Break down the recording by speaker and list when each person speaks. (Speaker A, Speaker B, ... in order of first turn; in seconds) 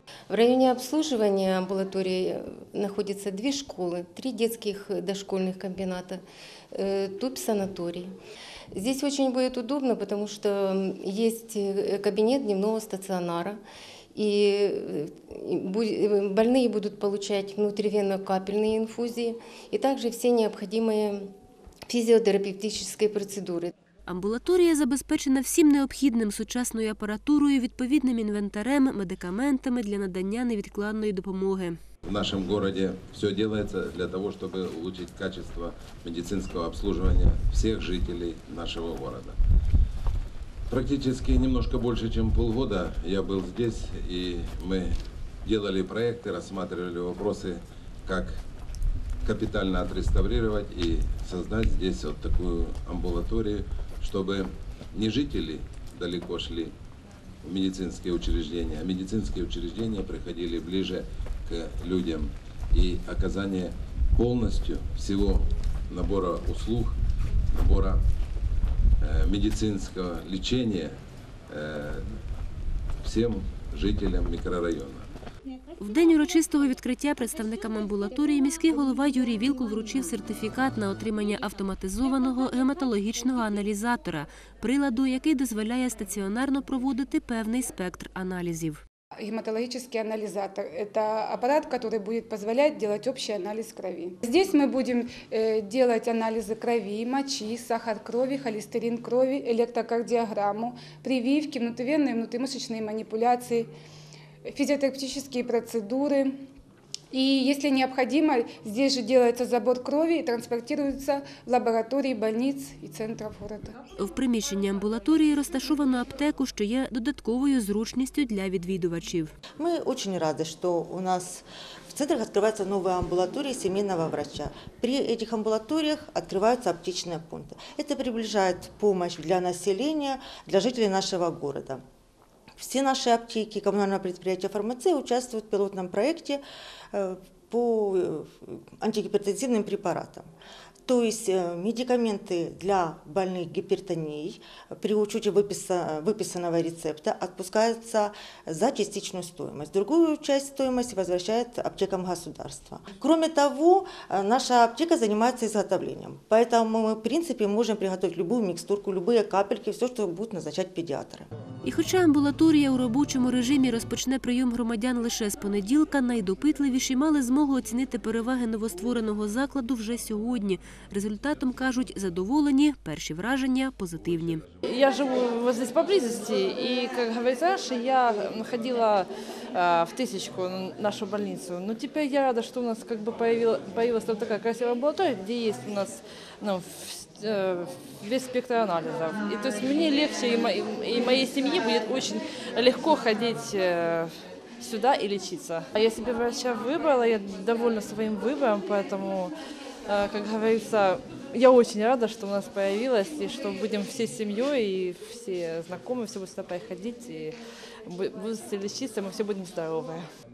Speaker A: 0.3-8.1, 8.7-13.6, 14.1-21.3, 21.9-23.7
Speaker B: 24.1-31.8, 75.8-88.8, 114.0-119.3, 161.6-174.4
Speaker C: 32.0-39.4, 40.7-48.4, 49.2-56.7, 57.4-67.0, 67.5-68.0, 69.0-70.9, 71.5-72.0, 73.0-75.0
Speaker D: 89.2-103.7, 104.4-106.3, 107.1-113.8
Speaker E: 119.6-131.8, 132.6-140.3, 140.9-161.3
Speaker F: 174.7-199.3, 199.9-207.3, 207.8-210.0